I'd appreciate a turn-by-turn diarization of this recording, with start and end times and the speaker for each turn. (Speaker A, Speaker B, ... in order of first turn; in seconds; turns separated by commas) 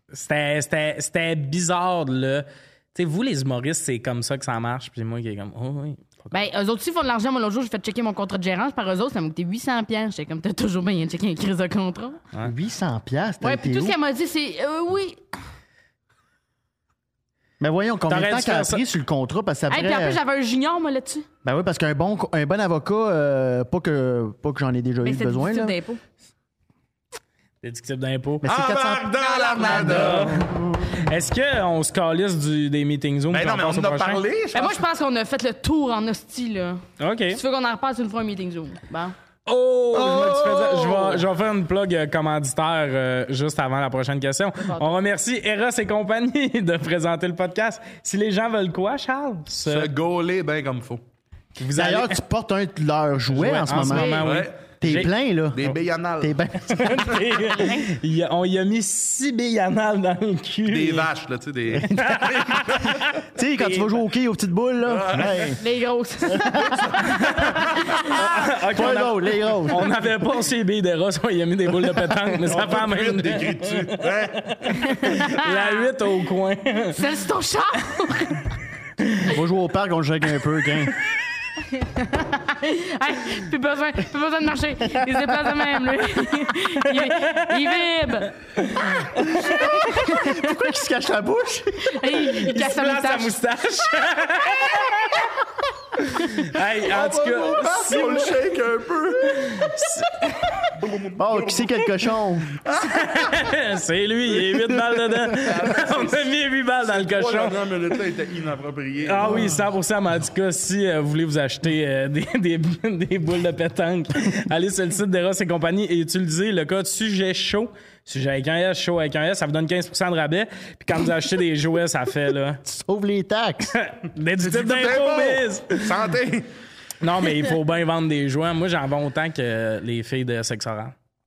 Speaker A: 0.1-6.3, Speaker B: 6.3-12.2, Speaker C: 12.4-14.0, Speaker B: 13.4-15.2, Speaker C: 17.6-20.2, Speaker A: 18.1-18.8, Speaker B: 19.7-21.3, Speaker C: 21.4-25.8, Speaker B: 25.0-26.0, Speaker A: 27.6-28.5, Speaker C: 28.4-31.0, Speaker D: 28.4-30.4, Speaker B: 29.2-30.1, Speaker A: 29.6-34.2, Speaker D: 33.3-34.8, Speaker B: 34.5-39.1, Speaker A: 37.0-37.4, Speaker A: 39.5-49.9, Speaker D: 40.0-41.2, Speaker C: 40.0-40.5, Speaker B: 44.6-44.9, Speaker D: 49.6-51.0, Speaker A: 51.6-52.2, Speaker C: 51.8-54.2, Speaker A: 53.3-55.1, Speaker B: 53.9-54.3, Speaker D: 54.1-54.6, Speaker C: 54.8-57.2, Speaker D: 55.5-57.2, Speaker A: 56.7-61.1, Speaker D: 60.7-63.0, Speaker C: 61.7-65.6, Speaker A: 61.9-64.0, Speaker D: 64.9-65.6, Speaker B: 65.6-67.3, Speaker C: 66.3-67.0, Speaker D: 66.8-67.7, Speaker A: 67.1-77.0, Speaker B: 67.9-68.3, Speaker C: 68.1-69.9, Speaker D: 72.4-74.8, Speaker B: 74.9-75.9, Speaker B: 76.9-78.5, Speaker A: 79.0-79.3, Speaker C: 79.2-81.0, Speaker B: 81.7-88.3, Speaker C: 85.0-85.5, Speaker A: 86.8-87.8, Speaker A: 88.5-90.0, Speaker C: 89.4-92.2, Speaker B: 89.6-90.6, Speaker B: 91.8-93.3, Speaker A: 92.2-95.3, Speaker A: 96.0-98.4, Speaker D: 96.8-99.8, Speaker A: 99.2-100.5, Speaker D: 100.7-103.5, Speaker C: 101.2-102.5, Speaker A: 102.8-107.7, Speaker D: 105.2-106.3, Speaker D: 106.8-109.5, Speaker A: 109.0-122.6, Speaker C: 109.3-109.6, Speaker C: 122.6-123.8, Speaker A: 123.7-126.0, Speaker D: 124.4-126.5, Speaker A: 127.0-130.9